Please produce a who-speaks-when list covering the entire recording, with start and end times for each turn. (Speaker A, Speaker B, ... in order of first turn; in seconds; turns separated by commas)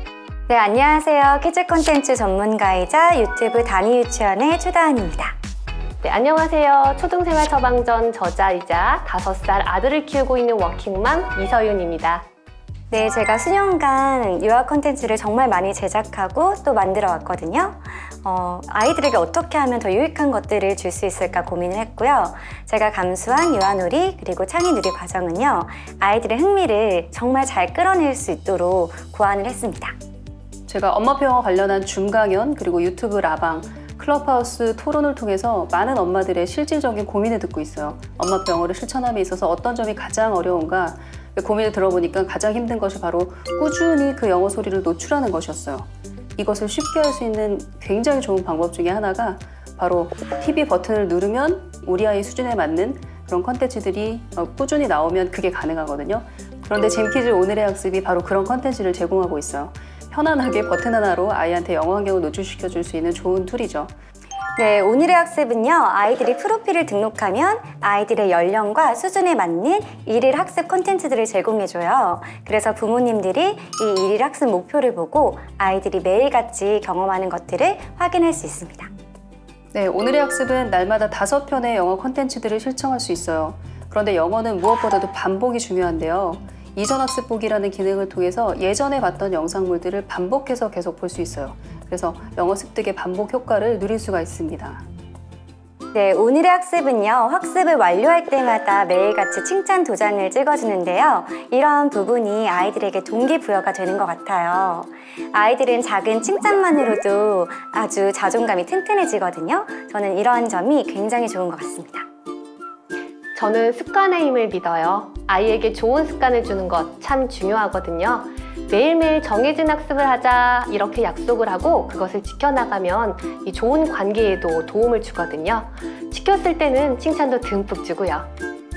Speaker A: 0.5-5.4, Speaker B: 6.0-12.3, Speaker A: 12.9-29.9, Speaker C: 30.7-63.9, Speaker A: 64.6-78.9, Speaker C: 79.7-94.8, Speaker A: 95.9-112.0, Speaker B: 113.3-128.3